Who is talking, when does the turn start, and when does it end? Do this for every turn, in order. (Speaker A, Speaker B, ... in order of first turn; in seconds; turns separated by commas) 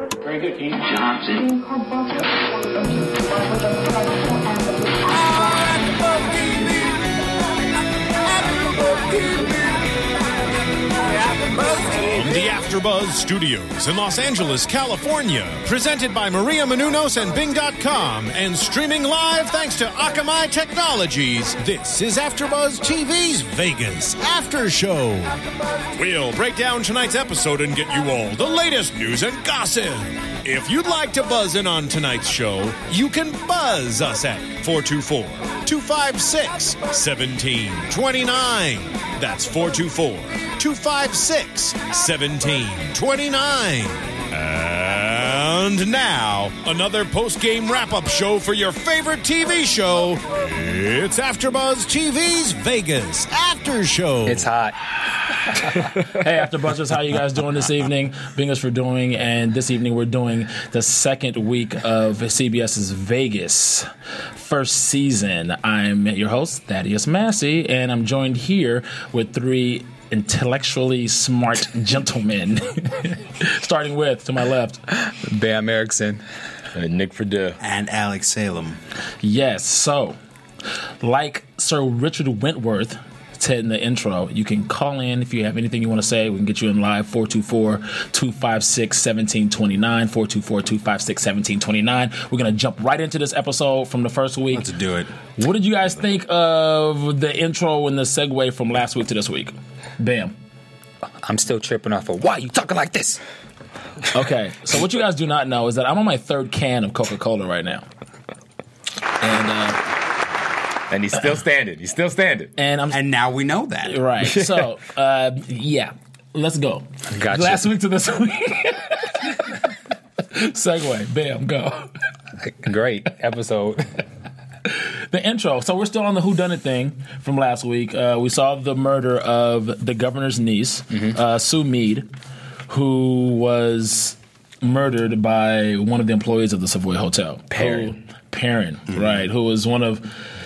Speaker A: 0.4-1.5, Speaker B: 5.4-6.7, Speaker B: 8.4-9.6, Speaker B: 11.3-25.4, Speaker B: 26.0-54.5, Speaker C: 54.3-54.8, Speaker A: 55.7-74.8, Speaker C: 74.9-76.2, Speaker D: 76.7-77.6, Speaker E: 77.6-78.8, Speaker A: 79.2-80.2, Speaker A: 81.0-94.7, Speaker E: 94.5-95.1, Speaker A: 95.4-100.3, Speaker C: 101.2-103.2, Speaker A: 104.1-107.9, Speaker A: 109.2-109.8, Speaker D: 110.9-112.5, Speaker A: 112.6-113.0, Speaker E: 112.9-114.0, Speaker A: 113.8-119.5, Speaker D: 114.2-114.6, Speaker C: 117.1-117.7, Speaker A: 120.3-121.9, Speaker C: 122.4-124.0, Speaker A: 124.7-132.1, Speaker A: 132.7-140.3, Speaker D: 137.5-137.9